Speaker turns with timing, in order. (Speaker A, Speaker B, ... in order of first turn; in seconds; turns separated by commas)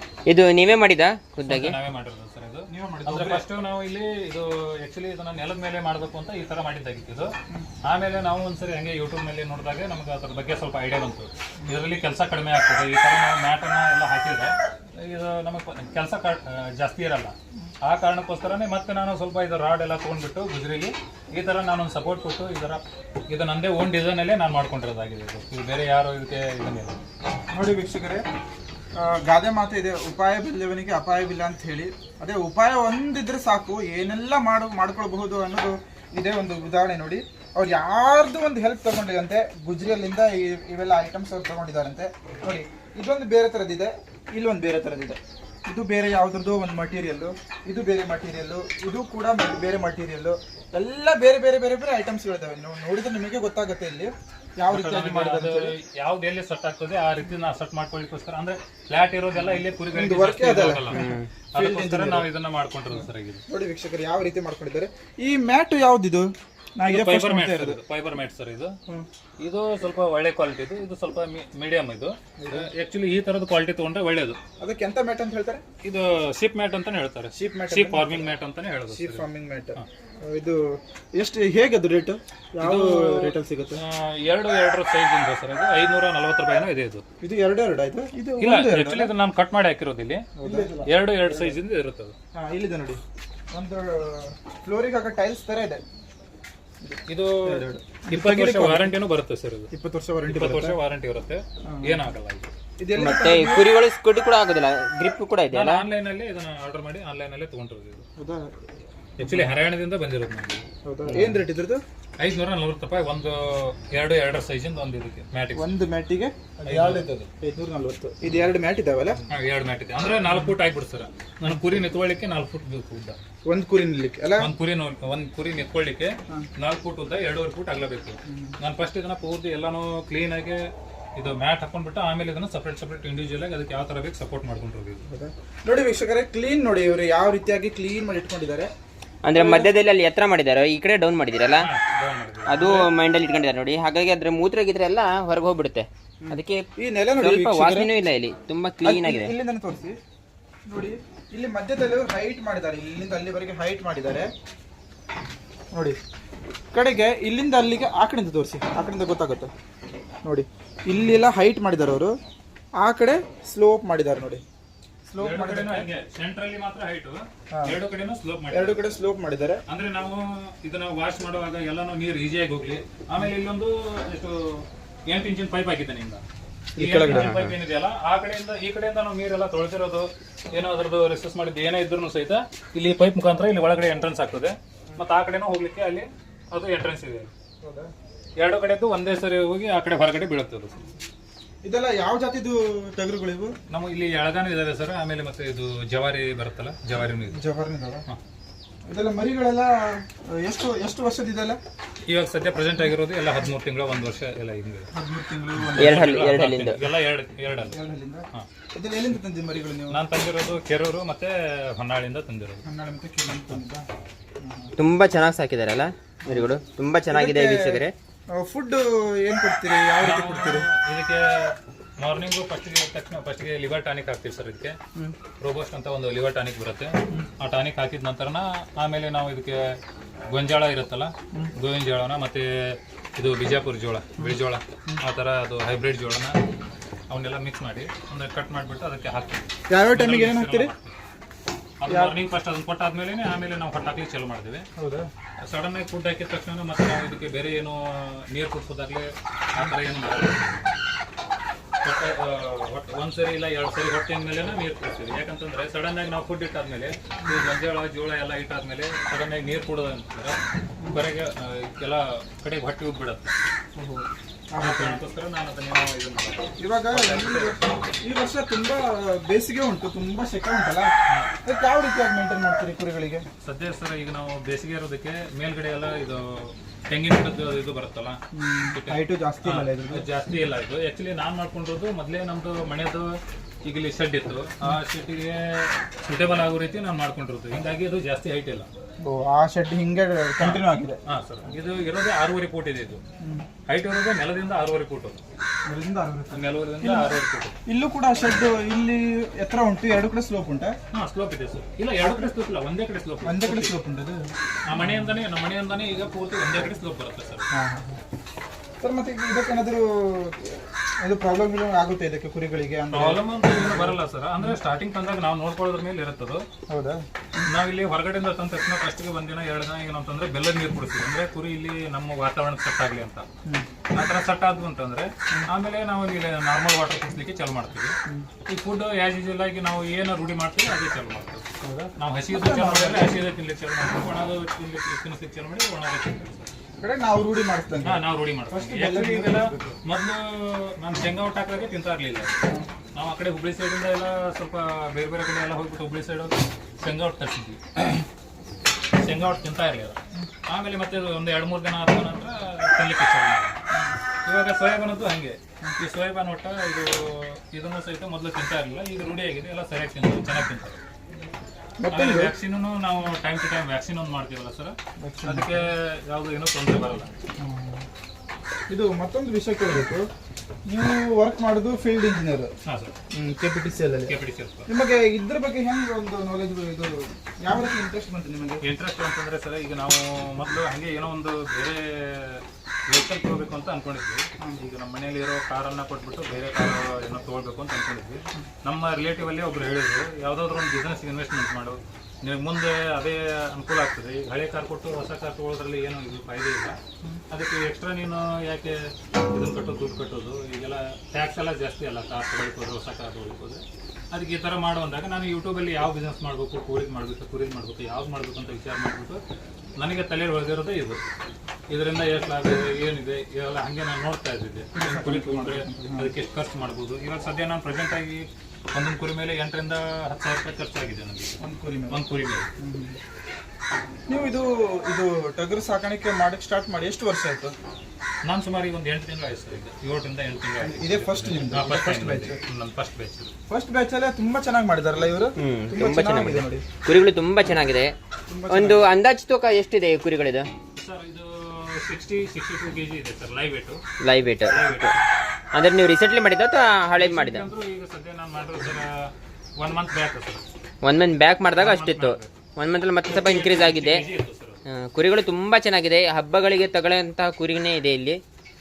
Speaker A: 0.3-1.8, Speaker B: 1.4-7.3, Speaker C: 2.7-3.5, Speaker B: 7.8-27.0, Speaker C: 27.5-28.2, Speaker C: 29.0-55.7, Speaker B: 54.7-63.5, Speaker C: 59.4-62.3, Speaker A: 60.9-61.3, Speaker C: 62.9-67.8, Speaker B: 66.9-68.8, Speaker B: 69.4-74.4, Speaker C: 72.4-72.7, Speaker C: 74.6-75.6, Speaker B: 75.8-79.8, Speaker C: 77.3-78.3, Speaker C: 78.9-83.8, Speaker B: 82.6-87.0, Speaker C: 87.2-89.1, Speaker B: 88.4-92.2, Speaker C: 90.4-91.6, Speaker C: 92.3-93.0, Speaker C: 93.5-95.8, Speaker C: 96.8-98.9, Speaker B: 97.1-99.7, Speaker C: 99.7-100.8, Speaker B: 100.3-102.5, Speaker C: 101.7-102.0, Speaker C: 102.8-103.7, Speaker A: 103.0-105.9, Speaker B: 105.5-108.1, Speaker C: 108.2-108.5, Speaker B: 109.2-111.4, Speaker C: 109.2-109.5, Speaker C: 110.8-111.8, Speaker B: 112.2-115.7, Speaker C: 115.6-119.2, Speaker B: 116.7-117.1, Speaker B: 119.3-123.2, Speaker C: 123.5-124.5, Speaker B: 124.4-130.7, Speaker C: 128.3-128.6, Speaker B: 131.2-135.0, Speaker C: 135.1-138.7, Speaker A: 139.2-141.7, Speaker C: 139.3-139.7, Speaker B: 141.6-142.9, Speaker A: 142.5-146.7, Speaker C: 146.2-147.9, Speaker A: 147.2-149.3, Speaker C: 148.8-150.0, Speaker C: 150.7-154.3, Speaker C: 155.7-156.0, Speaker C: 156.7-159.5, Speaker C: 160.2-162.1, Speaker C: 162.8-164.4, Speaker C: 165.1-165.9, Speaker B: 165.2-168.8, Speaker C: 167.5-167.8, Speaker C: 168.5-169.6, Speaker B: 169.7-176.2, Speaker C: 176.8-177.3, Speaker B: 176.8-187.3, Speaker A: 177.1-177.6, Speaker C: 187.6-187.9, Speaker B: 188.4-190.9, Speaker C: 191.6-193.5, Speaker B: 193.7-197.4, Speaker C: 197.3-198.1, Speaker C: 198.9-201.6, Speaker B: 202.1-204.9, Speaker C: 204.9-206.0, Speaker B: 205.6-207.8, Speaker A: 205.8-206.8, Speaker C: 207.6-210.0, Speaker B: 209.9-212.6, Speaker C: 212.6-213.9, Speaker C: 214.4-214.7, Speaker A: 214.8-217.9, Speaker C: 216.3-216.5, Speaker C: 217.1-217.8, Speaker C: 218.3-220.7, Speaker B: 220.0-224.8, Speaker B: 225.4-229.8, Speaker B: 230.3-236.4, Speaker B: 237.1-240.9, Speaker C: 239.7-240.7, Speaker B: 241.8-244.7, Speaker C: 241.9-242.2, Speaker C: 244.8-245.1, Speaker B: 245.4-250.7, Speaker B: 251.8-260.4, Speaker B: 260.9-263.4, Speaker C: 263.8-265.0, Speaker B: 264.6-267.7, Speaker C: 266.6-270.9, Speaker B: 271.1-271.4, Speaker C: 271.4-273.2, Speaker B: 273.4-278.2, Speaker C: 278.3-280.1, Speaker B: 278.7-288.7, Speaker C: 289.0-291.0, Speaker B: 290.4-293.0, Speaker C: 293.2-293.5, Speaker B: 293.7-295.2, Speaker C: 295.7-300.8, Speaker B: 296.3-297.6, Speaker B: 300.9-303.7, Speaker C: 302.0-302.3, Speaker C: 303.2-305.2, Speaker B: 304.7-307.5, Speaker C: 307.5-308.0, Speaker C: 308.8-314.5, Speaker B: 312.9-316.5, Speaker C: 316.7-317.5, Speaker B: 317.5-323.3, Speaker B: 323.9-328.0, Speaker B: 328.5-336.5, Speaker C: 331.6-333.1, Speaker C: 336.8-339.7, Speaker B: 337.8-342.4, Speaker B: 342.9-348.0, Speaker B: 349.0-353.6, Speaker C: 353.7-354.0, Speaker B: 354.2-360.8, Speaker C: 361.8-362.3, Speaker B: 361.9-367.1, Speaker C: 365.0-365.6, Speaker C: 367.4-367.9, Speaker C: 368.7-370.1, Speaker C: 370.7-372.5, Speaker B: 372.6-372.9, Speaker C: 373.1-374.2, Speaker B: 374.1-374.7, Speaker C: 374.7-378.6, Speaker B: 378.6-396.8, Speaker B: 397.3-409.2, Speaker B: 409.8-411.1, Speaker B: 411.7-421.4, Speaker C: 414.7-416.1, Speaker C: 421.4-422.0, Speaker B: 421.9-422.5, Speaker C: 422.6-423.0, Speaker C: 424.1-427.5, Speaker B: 428.2-433.3, Speaker C: 430.6-432.4, Speaker C: 433.5-436.6, Speaker A: 435.4-437.9, Speaker C: 438.3-438.9, Speaker A: 438.5-440.5, Speaker B: 440.8-443.8, Speaker A: 444.0-445.0, Speaker B: 444.5-445.0, Speaker A: 445.5-447.5, Speaker B: 446.9-450.5, Speaker A: 450.8-454.0, Speaker B: 451.6-452.3, Speaker B: 453.1-454.6, Speaker A: 454.7-458.2